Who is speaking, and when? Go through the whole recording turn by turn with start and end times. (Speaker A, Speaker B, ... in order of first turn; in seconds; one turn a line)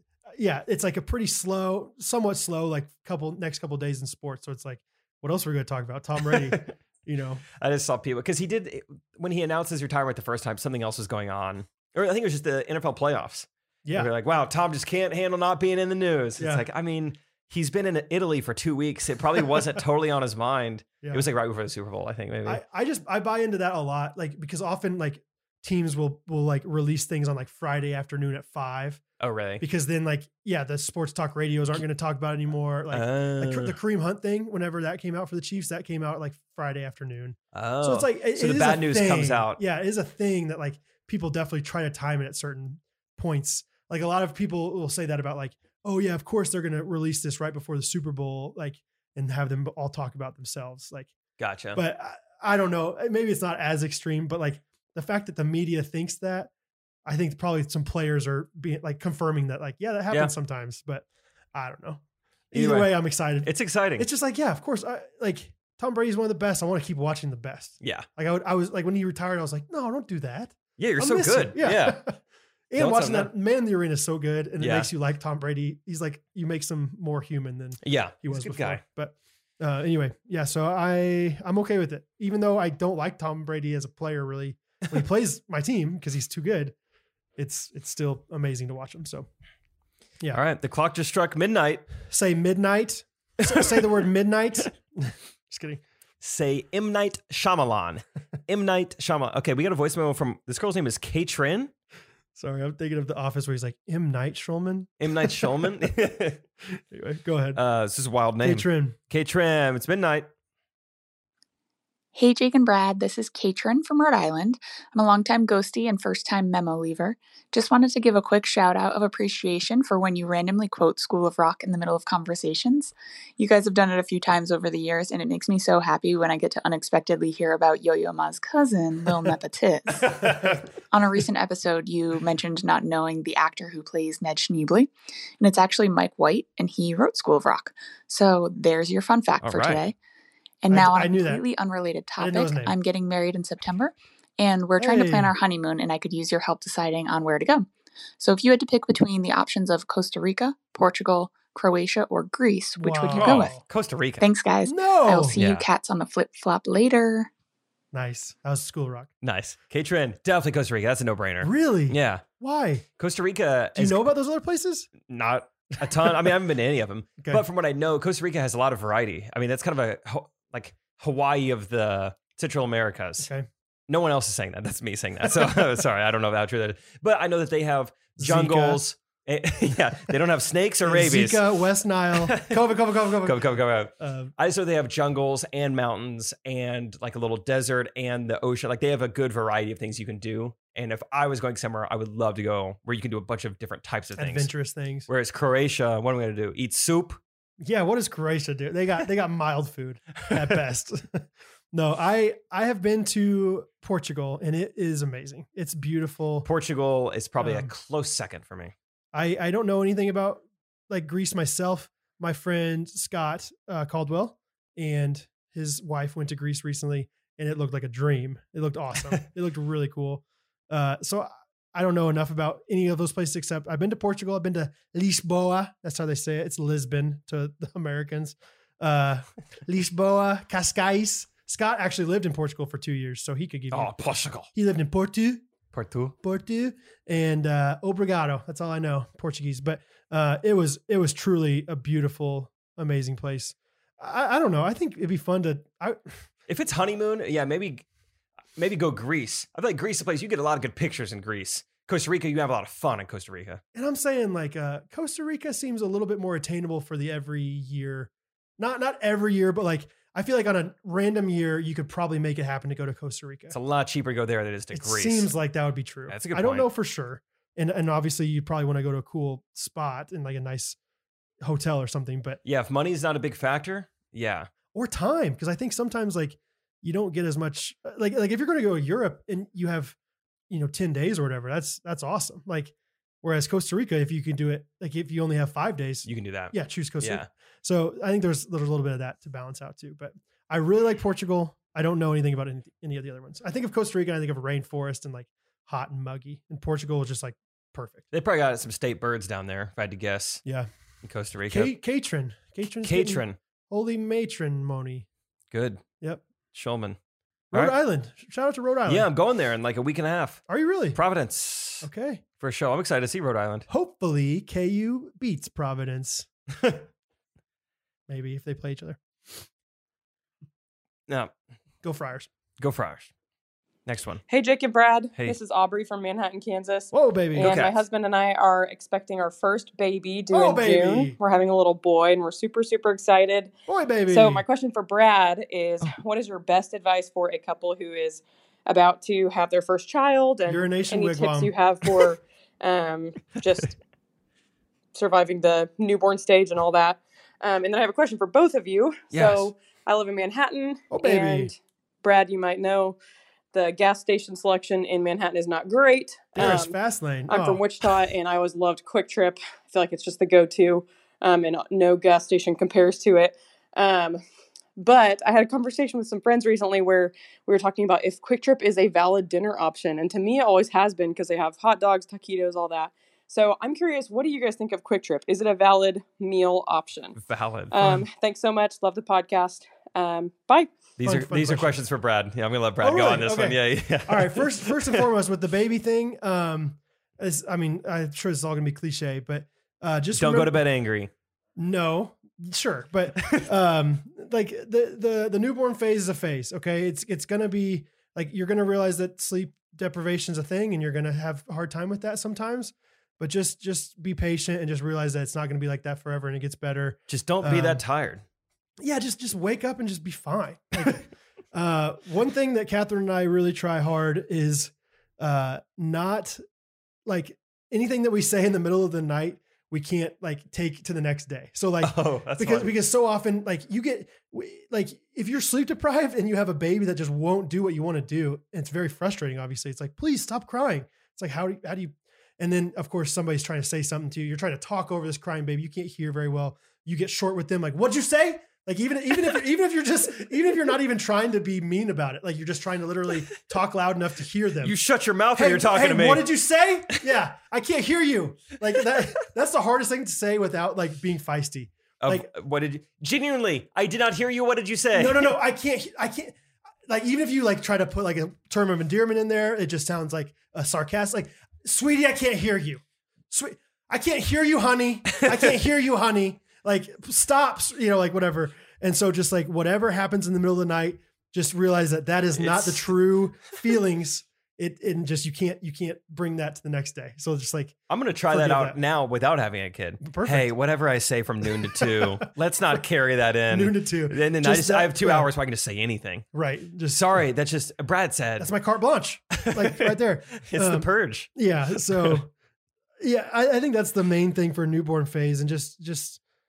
Speaker A: 0.3-7.4
Speaker B: 6.3-6.7
Speaker B: 7.6-22.6
Speaker A: 13.8-14.1
Speaker A: 16.4-16.6
Speaker A: 22.4-29.0
Speaker B: 29.2-29.6
Speaker A: 29.6-51.1
Speaker B: 32.9-33.8
Speaker B: 37.5-39.6
Speaker B: 51.4-51.8
Speaker A: 51.8-56.5
Speaker A: 57.1-62.0
Speaker A: 62.5-72.2
Speaker B: 62.5-64.1
Speaker B: 67.8-68.1
Speaker B: 70.8-72.0
Speaker A: 72.7-86.8
Speaker B: 72.8-73.3
Speaker B: 74.6-74.9
Speaker B: 77.8-78.8
Speaker A: 87.4-89.3
Speaker B: 90.3-91.9
Speaker A: 92.1-95.8
Speaker B: 93.4-93.9
Speaker B: 96.2-101.7
Speaker A: 102.3-105.7
Speaker B: 105.0-106.4
Speaker A: 106.6-107.6
Speaker B: 107.5-110.3
Speaker A: 108.4-109.0
Speaker C: 112.1-139.9
Speaker A: 130.2-130.5
Speaker B: 139.4-139.8
Speaker C: 140.6-147.7
Speaker A: 140.7-141.4
Speaker A: 142.2-142.8
Speaker A: 144.8-145.3
Speaker C: 148.2-153.6
Speaker A: 152.8-153.6
Speaker B: 153.1-154.3
Speaker C: 154.2-157.3
Speaker A: 154.6-155.4
Speaker B: 155.4-155.7
Speaker A: 157.9-159.1
Speaker B: 159.2-162.2
Speaker A: 161.4-162.8
Speaker B: 163.0-164.1
Speaker A: 163.8-164.9
Speaker B: 165.0-173.3
Speaker A: 165.9-166.3
Speaker A: 167.2-167.4
Speaker A: 173.2-173.5
Speaker B: 173.9-181.4
Speaker A: 178.2-178.8
Speaker A: 180.8-183.5
Speaker B: 182.2-194.5
Speaker A: 184.0-184.3
Speaker A: 194.2-195.1
Speaker B: 195.1-197.2
Speaker A: 197.6-206.5
Speaker B: 206.4-208.7
Speaker A: 207.4-207.7
Speaker A: 209.1-233.9
Speaker B: 233.7-234.5
Speaker A: 234.5-235.4
Speaker B: 235.7-236.2
Speaker A: 236.2-246.1
Speaker B: 246.5-247.9
Speaker B: 248.6-253.6
Speaker A: 253.7-263.6
Speaker B: 263.5-265.3
Speaker A: 264.7-270.8
Speaker B: 266.1-266.7
Speaker A: 271.4-272.4
Speaker B: 272.4-274.5
Speaker A: 274.7-280.0
Speaker A: 280.5-298.1
Speaker B: 286.1-287.3
Speaker B: 298.1-300.4
Speaker B: 301.0-301.7
Speaker A: 301.5-305.1
Speaker B: 302.8-303.4
Speaker B: 305.5-305.8
Speaker B: 306.5-307.0
Speaker A: 307.5-309.1
Speaker B: 308.9-310.4
Speaker A: 310.5-311.0
Speaker B: 310.9-311.9
Speaker A: 311.8-312.2
Speaker B: 312.4-313.7
Speaker A: 313.7-316.3
Speaker A: 318.1-319.4
Speaker B: 321.1-321.3
Speaker A: 321.8-322.3
Speaker B: 322.6-323.1
Speaker B: 323.9-324.2
Speaker D: 324.3-333.5
Speaker A: 326.9-327.6
Speaker B: 327.4-327.8
Speaker A: 330.3-331.2
Speaker A: 333.7-334.4
Speaker D: 334.1-343.8
Speaker A: 340.5-341.5
Speaker D: 344.9-353.0
Speaker B: 349.1-349.5
Speaker A: 350.9-351.5
Speaker D: 353.5-356.8
Speaker A: 356.4-357.6
Speaker D: 357.3-364.2
Speaker D: 364.8-377.2
Speaker B: 377.2-377.8
Speaker D: 377.7-380.8
Speaker B: 381.0-385.1
Speaker A: 381.0-381.8
Speaker A: 382.8-390.6
Speaker B: 390.1-391.1
Speaker A: 391.6-407.8
Speaker B: 393.2-393.5
Speaker B: 407.1-408.2
Speaker A: 408.8-416.4
Speaker A: 417.1-444.8
Speaker B: 421.8-422.7
Speaker B: 444.6-446.3
Speaker A: 445.4-452.3
Speaker B: 452.0-455.4
Speaker A: 454.9-456.4
Speaker A: 456.9-477.8
Speaker B: 472.4-472.9
Speaker B: 477.9-486.3
Speaker A: 478.3-478.8
Speaker A: 480.0-480.5
Speaker A: 481.6-482.2
Speaker A: 483.5-485.3
Speaker A: 486.3-487.2
Speaker B: 486.9-488.5
Speaker A: 488.4-492.3
Speaker B: 489.3-492.2
Speaker A: 493.0-496.2